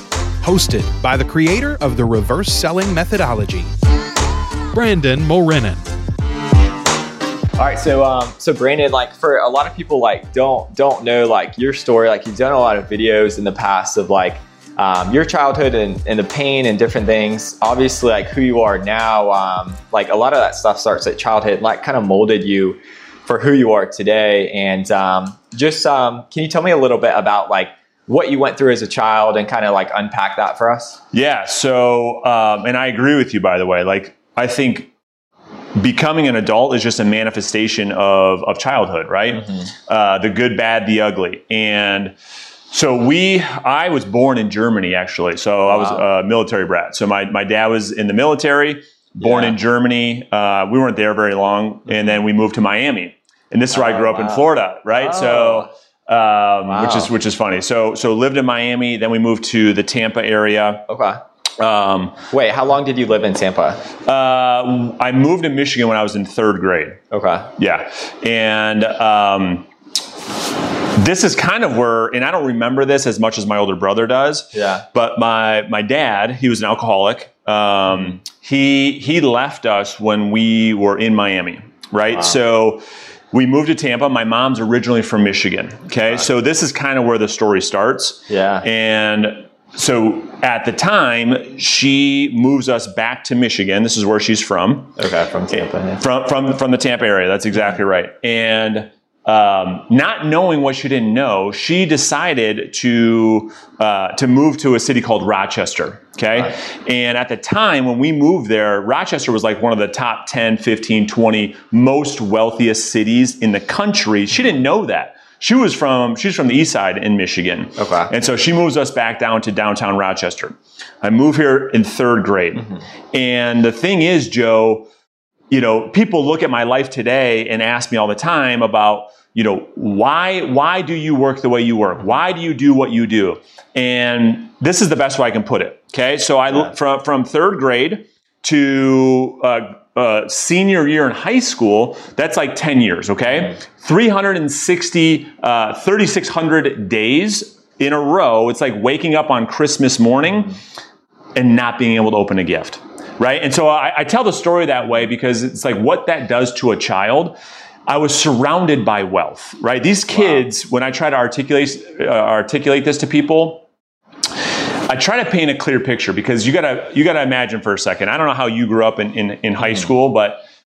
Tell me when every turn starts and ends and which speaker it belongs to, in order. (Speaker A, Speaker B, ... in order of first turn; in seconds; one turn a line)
Speaker A: 0.4-3.7
Speaker A: 4.7-5.8
Speaker B: 7.6-31.0
Speaker C: 31.1-34.9
Speaker C: 35.8-42.1
Speaker C: 42.7-60.8
Speaker B: 45.7-46.0
Speaker B: 49.2-49.5
Speaker B: 53.7-55.7
Speaker B: 56.7-57.1
Speaker B: 60.9-61.2
Speaker C: 61.6-62.1
Speaker B: 62.3-63.8
Speaker C: 64.0-67.0
Speaker B: 67.1-67.5
Speaker C: 67.6-69.7
Speaker C: 70.9-82.8
Speaker B: 74.5-74.8
Speaker C: 83.3-95.0
Speaker B: 88.3-88.7
Speaker B: 95.0-96.0
Speaker C: 96.0-124.9
Speaker B: 117.8-118.1
Speaker C: 125.5-150.6
Speaker C: 151.3-157.3
Speaker C: 157.9-163.6
Speaker C: 164.8-170.4